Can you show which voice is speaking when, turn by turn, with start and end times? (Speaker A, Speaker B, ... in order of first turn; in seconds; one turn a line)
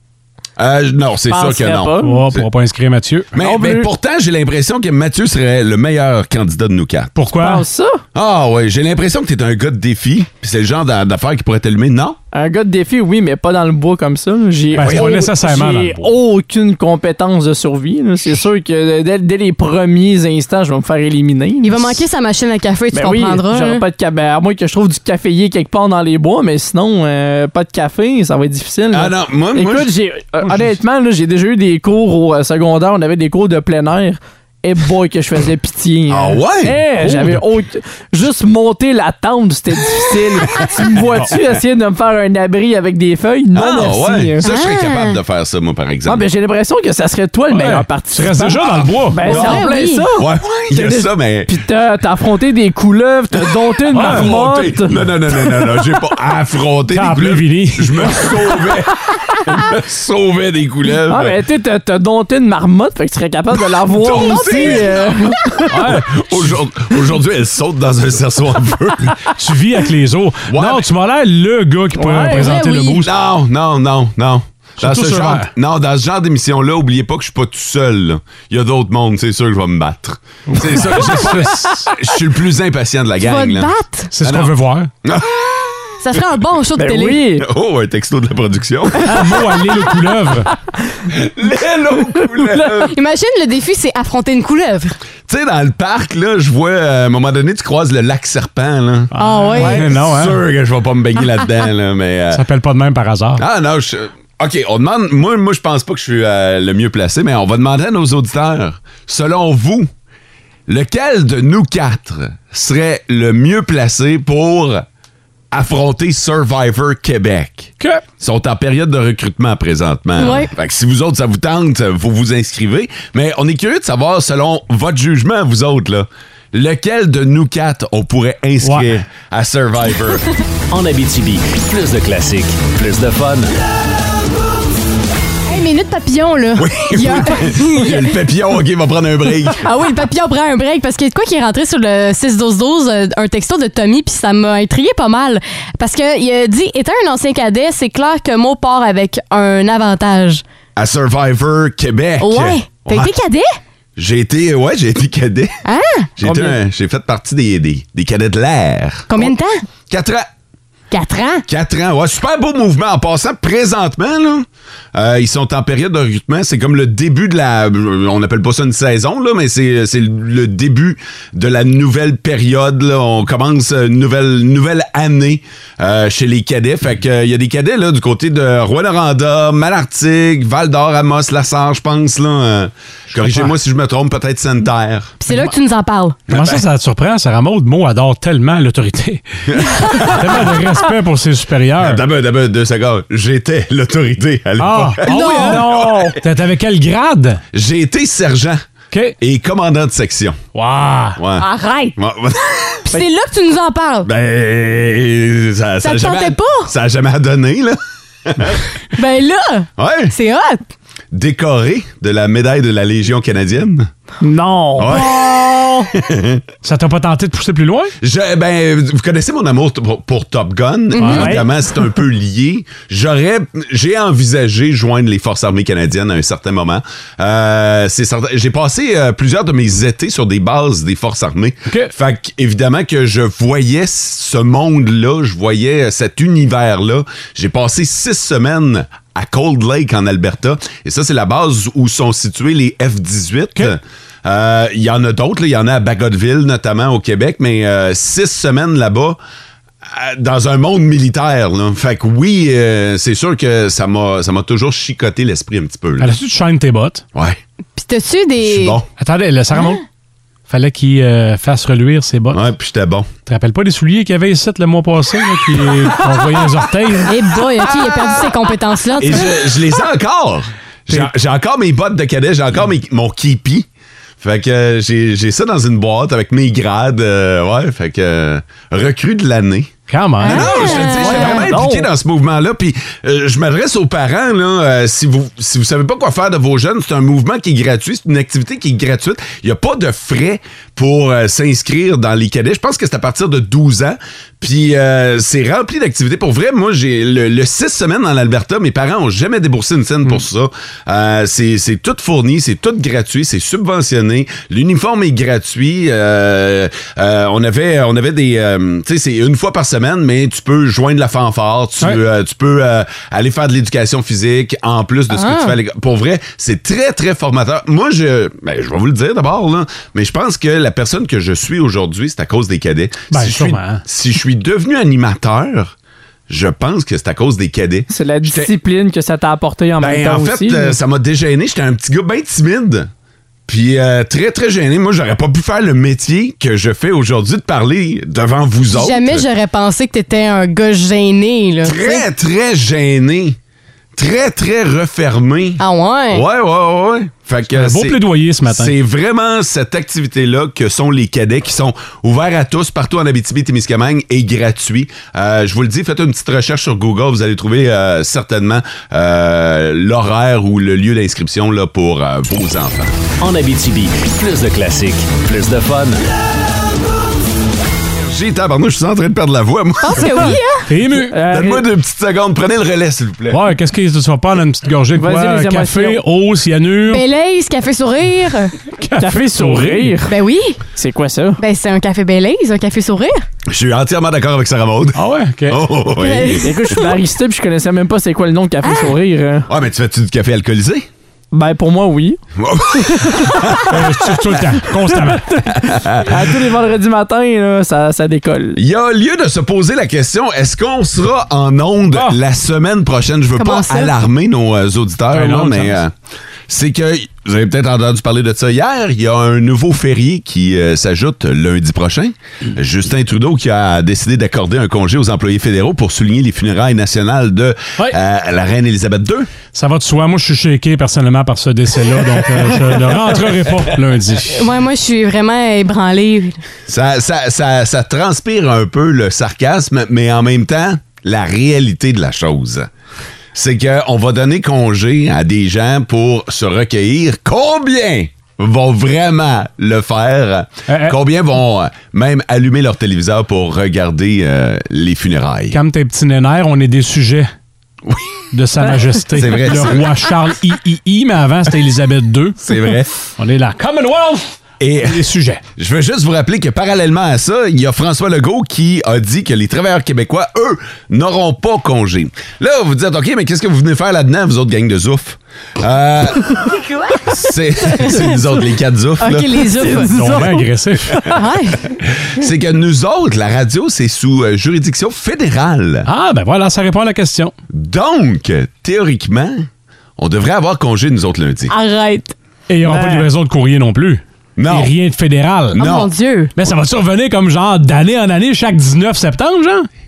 Speaker A: 0.6-2.5
Speaker B: 1.3-2.3
Speaker C: 2.0-3.3
Speaker A: 3.3-7.2
Speaker B: 3.4-3.9
Speaker C: 7.2-7.7
Speaker B: 7.3-8.0
Speaker A: 8.1-12.2
Speaker B: 12.3-22.0
Speaker C: 14.7-16.1
Speaker A: 14.8-15.1
Speaker D: 21.6-23.8
Speaker B: 22.9-44.5
Speaker A: 28.9-29.9
Speaker A: 36.1-36.8
Speaker C: 37.0-37.4
Speaker A: 43.5-46.2
Speaker D: 44.4-45.2
Speaker B: 46.0-55.0
Speaker C: 47.5-49.4
Speaker D: 49.2-50.0
Speaker A: 49.3-49.6
Speaker A: 50.1-51.5
Speaker A: 53.5-61.4
Speaker C: 53.9-54.4
Speaker C: 56.9-58.5
Speaker B: 61.1-65.9
Speaker A: 63.9-69.3
Speaker D: 64.2-65.0
Speaker C: 65.7-66.5
Speaker C: 69.4-73.1
Speaker A: 70.5-70.9
Speaker B: 72.0-72.5
Speaker D: 72.2-73.0
Speaker A: 73.0-86.2
Speaker C: 74.8-75.5
Speaker C: 80.5-81.9
Speaker D: 83.2-84.1
Speaker C: 84.1-84.9
Speaker D: 86.0-87.2
Speaker B: 86.8-87.4
Speaker A: 87.4-89.6
Speaker C: 89.0-90.5
Speaker A: 91.1-92.9
Speaker B: 92.4-92.7
Speaker D: 92.9-94.9
Speaker A: 95.3-99.1
Speaker C: 99.1-100.4
Speaker D: 99.2-99.9
Speaker B: 99.6-100.0
Speaker A: 99.8-102.4
Speaker C: 102.3-103.4
Speaker A: 103.4-109.9
Speaker A: 110.7-114.8
Speaker A: 115.5-130.2
Speaker D: 120.2-120.5
Speaker C: 128.6-128.9
Speaker E: 130.7-133.5
Speaker D: 135.5-138.1
Speaker A: 136.6-139.7
Speaker D: 139.6-150.4
Speaker A: 150.8-153.1
Speaker D: 152.2-153.5
Speaker A: 153.9-155.6
Speaker D: 155.6-156.1
Speaker A: 156.2-159.3
Speaker B: 156.2-156.6
Speaker D: 159.1-159.6
Speaker A: 159.9-160.3
Speaker D: 160.9-161.4
Speaker A: 161.5-185.1
Speaker C: 183.1-183.5
Speaker D: 185.2-186.2
Speaker A: 186.3-186.6
Speaker C: 186.3-189.2
Speaker A: 189.5-190.6
Speaker D: 189.8-190.1
Speaker C: 189.9-192.0
Speaker A: 191.8-196.2
Speaker C: 194.6-197.4
Speaker D: 195.1-195.7
Speaker A: 197.5-198.6
Speaker A: 199.2-200.4
Speaker C: 200.5-201.2
Speaker A: 201.2-202.9
Speaker D: 201.3-201.9
Speaker D: 202.8-204.1
Speaker A: 204.0-208.6
Speaker D: 205.8-206.7
Speaker D: 208.9-210.6
Speaker A: 209.8-210.1
Speaker A: 211.1-213.9
Speaker B: 214.2-215.0
Speaker A: 214.8-216.4
Speaker D: 214.9-215.7
Speaker C: 216.6-217.9
Speaker A: 218.0-249.2
Speaker D: 220.9-221.2
Speaker C: 221.0-221.3
Speaker B: 221.1-221.4
Speaker A: 249.8-256.1
Speaker C: 256.0-257.0
Speaker D: 257.8-258.8
Speaker A: 258.4-258.9
Speaker C: 259.0-259.8
Speaker C: 260.5-262.4
Speaker A: 262.3-263.1
Speaker C: 263.2-267.1
Speaker D: 267.1-269.3
Speaker A: 269.0-273.7
Speaker A: 274.2-325.7
Speaker C: 279.9-280.8
Speaker D: 280.2-281.4
Speaker B: 280.8-281.9
Speaker D: 315.1-315.5
Speaker C: 323.1-323.8
Speaker A: 326.3-328.5
Speaker B: 327.9-330.8
Speaker A: 329.8-332.9
Speaker A: 333.5-339.2
Speaker D: 338.7-342.0
Speaker A: 341.6-343.4
Speaker A: 343.9-362.9
Speaker D: 345.6-346.2
Speaker C: 347.5-348.7
Speaker E: 363.2-366.0
Speaker A: 367.9-370.3
Speaker D: 369.8-370.6
Speaker C: 370.7-371.2
Speaker B: 370.9-371.6
Speaker A: 371.3-373.5
Speaker C: 373.3-377.0
Speaker B: 374.9-376.0
Speaker D: 376.9-378.5
Speaker C: 378.8-379.9
Speaker B: 378.9-380.1
Speaker D: 380.1-380.6
Speaker B: 380.7-381.4
Speaker D: 381.4-383.2
Speaker A: 383.5-386.6
Speaker C: 384.9-385.6
Speaker D: 386.0-386.9
Speaker B: 386.4-389.5
Speaker A: 389.5-390.9
Speaker B: 391.3-392.2
Speaker A: 392.4-394.0
Speaker C: 393.6-395.5
Speaker A: 395.6-396.3
Speaker B: 396.0-398.6
Speaker A: 398.6-405.9
Speaker D: 403.4-403.9
Speaker C: 405.1-405.8
Speaker A: 406.5-419.3
Speaker C: 419.5-424.4
Speaker D: 424.3-426.4
Speaker A: 426.7-432.7
Speaker A: 433.3-445.6
Speaker C: 440.7-440.9
Speaker C: 445.5-447.3
Speaker A: 447.8-448.2
Speaker C: 448.3-452.6
Speaker A: 449.1-449.9
Speaker A: 452.4-452.9
Speaker C: 453.2-455.4
Speaker A: 454.6-455.0
Speaker A: 455.6-469.6
Speaker D: 467.8-468.1
Speaker D: 469.0-469.9
Speaker B: 469.6-470.5
Speaker C: 469.9-471.1
Speaker D: 471.1-471.6
Speaker A: 471.8-475.9
Speaker C: 475.8-477.3
Speaker A: 477.5-481.5
Speaker D: 481.5-482.1
Speaker C: 482.5-485.6
Speaker B: 482.6-483.1
Speaker A: 484.4-484.7
Speaker A: 485.5-485.9
Speaker D: 485.6-486.3
Speaker C: 486.4-489.7